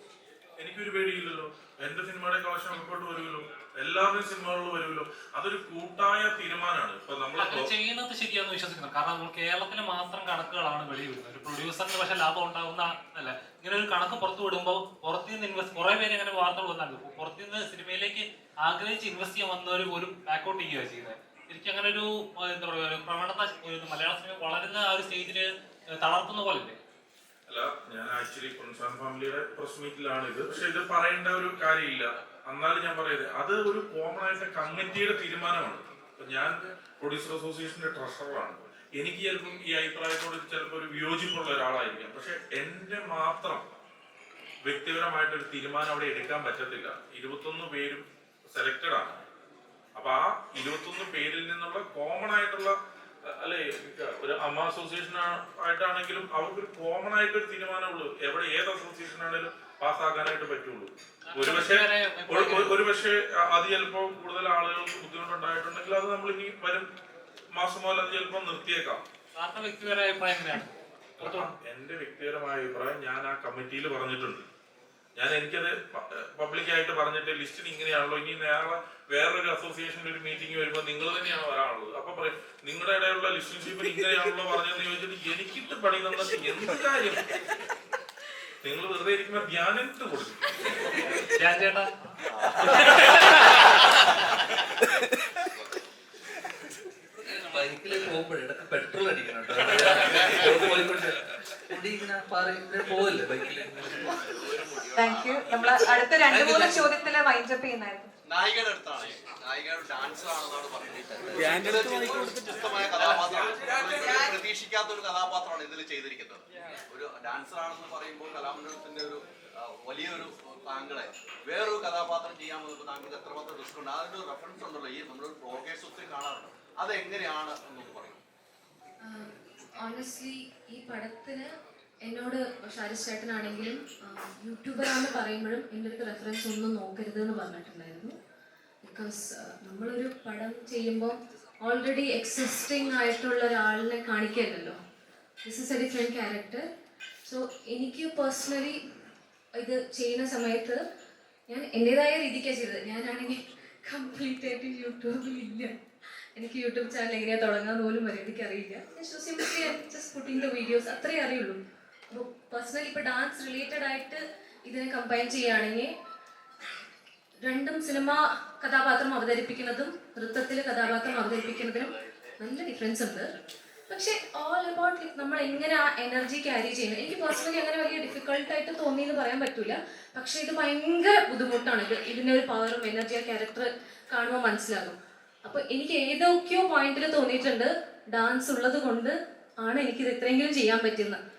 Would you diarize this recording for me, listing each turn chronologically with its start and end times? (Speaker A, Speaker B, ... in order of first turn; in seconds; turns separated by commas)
Speaker A: 0.6-7.7, Speaker B: 7.4-25.5, Speaker B: 26.0-26.8, Speaker A: 27.5-43.6, Speaker A: 44.6-49.2, Speaker A: 50.0-52.7, Speaker A: 53.2-66.9, Speaker B: 61.3-62.8, Speaker A: 67.5-69.0, Speaker B: 69.3-70.7, Speaker B: 71.2-71.5, Speaker A: 71.2-74.5, Speaker A: 75.2-87.3, Speaker A: 88.6-91.0, Speaker B: 91.4-91.9, Speaker B: 92.7-93.3, Speaker C: 97.2-104.2, Speaker D: 104.9-108.1, Speaker C: 106.3-106.9, Speaker E: 108.3-128.2, Speaker F: 129.0-131.5, Speaker F: 132.0-138.1, Speaker F: 138.8-144.8, Speaker F: 145.4-146.6, Speaker F: 147.3-148.8, Speaker F: 149.6-150.8, Speaker F: 151.5-155.7, Speaker F: 156.4-161.6, Speaker F: 162.1-165.9, Speaker F: 167.4-173.3, Speaker E: 170.9-172.1, Speaker F: 173.9-191.2